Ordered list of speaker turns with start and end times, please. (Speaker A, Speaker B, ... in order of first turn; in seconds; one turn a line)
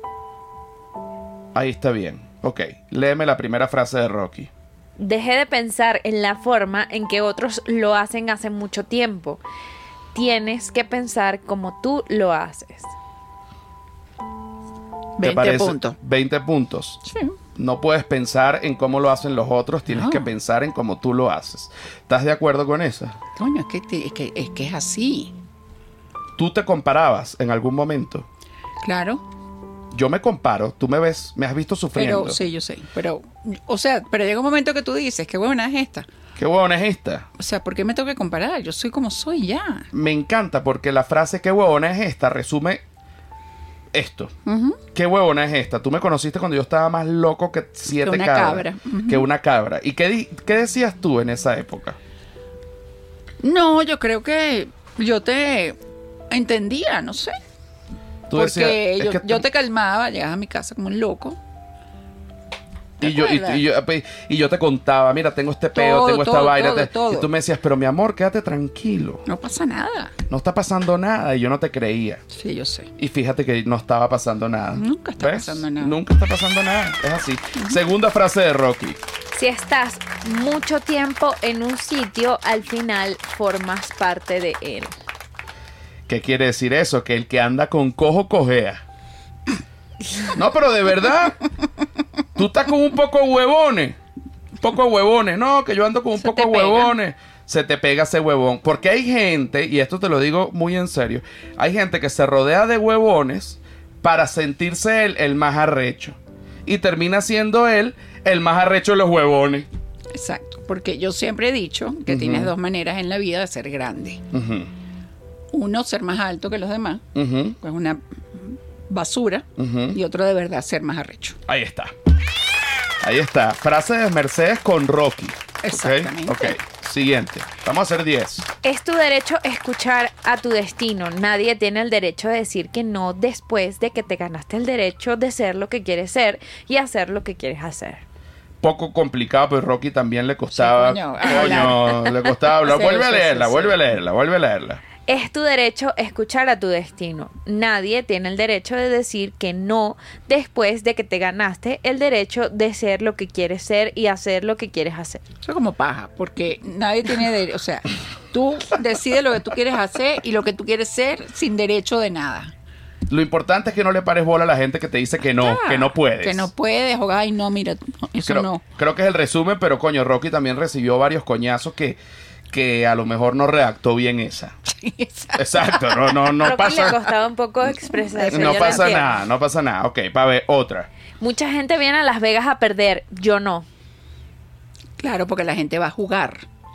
Speaker A: 1.5-4.5
Speaker B: 5.0-9.4
Speaker B: 10.1-12.9
Speaker C: 15.2-16.0
Speaker A: 15.2-17.0
Speaker C: 17.0-17.4
Speaker A: 17.6-23.2
Speaker C: 19.9-20.3
Speaker C: 23.4-25.3
Speaker A: 26.4-28.3
Speaker C: 28.8-29.2
Speaker A: 29.9-32.4
Speaker C: 31.9-36.1
Speaker A: 36.4-37.3
Speaker C: 37.4-39.9
Speaker A: 39.9-42.8
Speaker A: 43.9-44.3
Speaker C: 44.5-44.8
Speaker A: 44.9-52.0
Speaker C: 48.0-49.3
Speaker C: 53.4-55.8
Speaker C: 56.3-57.4
Speaker A: 58.3-59.4
Speaker C: 58.3-61.4
Speaker C: 63.0-63.6
Speaker A: 63.0-69.2
Speaker C: 65.8-67.3
Speaker C: 69.3-70.1
Speaker A: 70.3-72.2
Speaker C: 72.3-72.9
Speaker A: 73.0-79.0
Speaker C: 74.8-76.0
Speaker B: 79.3-84.9
Speaker A: 86.1-88.8
Speaker A: 90.3-91.4
Speaker A: 92.4-94.0
Speaker A: 94.6-109.7
Speaker C: 96.4-96.9
Speaker C: 110.1-114.2
Speaker A: 112.1-112.5
Speaker A: 114.3-114.7
Speaker C: 115.5-117.1
Speaker A: 117.2-117.6
Speaker C: 117.6-121.4
Speaker A: 119.6-120.0
Speaker A: 121.5-121.9
Speaker A: 123.0-128.5
Speaker C: 125.6-126.6
Speaker B: 128.6-138.0
Speaker A: 138.6-144.8
Speaker C: 140.6-141.9
Speaker C: 142.7-143.8
Speaker B: 145.1-155.2
Speaker C: 155.4-162.5
Speaker A: 163.1-166.5
Speaker C: 165.4-168.6
Speaker A: 168.3-172.0
Speaker A: 172.5-174.5
Speaker C: 174.7-176.4
Speaker A: 175.4-177.0
Speaker B: 176.4-179.1
Speaker C: 177.9-179.1
Speaker A: 178.3-180.9
Speaker B: 181.2-183.7
Speaker C: 185.0-186.5